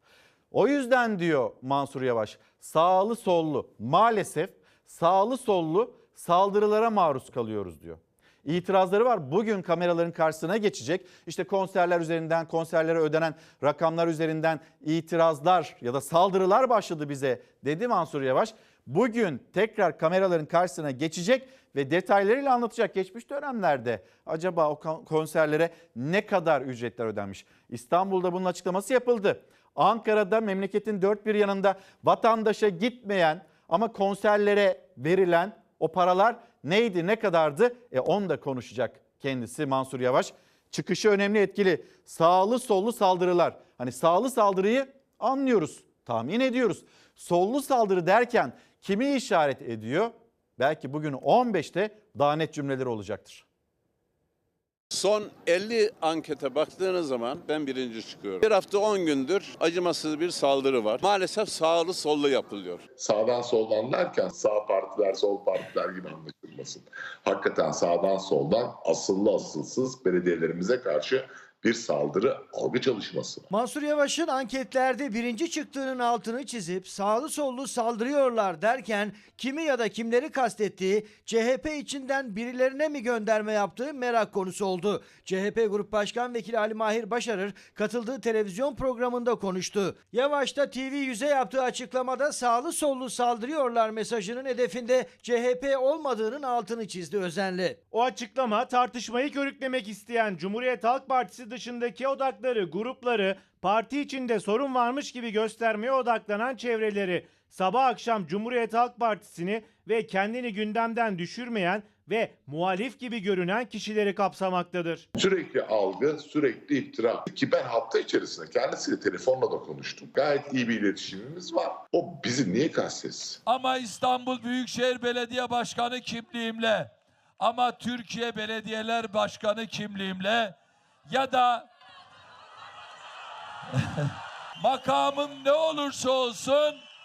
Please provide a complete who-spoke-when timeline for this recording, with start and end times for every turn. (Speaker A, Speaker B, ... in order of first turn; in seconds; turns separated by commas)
Speaker A: 0.5-53.5, Speaker B: 54.9-62.8, Speaker C: 63.0-73.5, Speaker D: 73.5-97.8, Speaker E: 97.9-115.0, Speaker C: 115.2-123.4, Speaker F: 123.5-130.6, Speaker F: 131.1-131.7, Speaker F: 133.8-136.8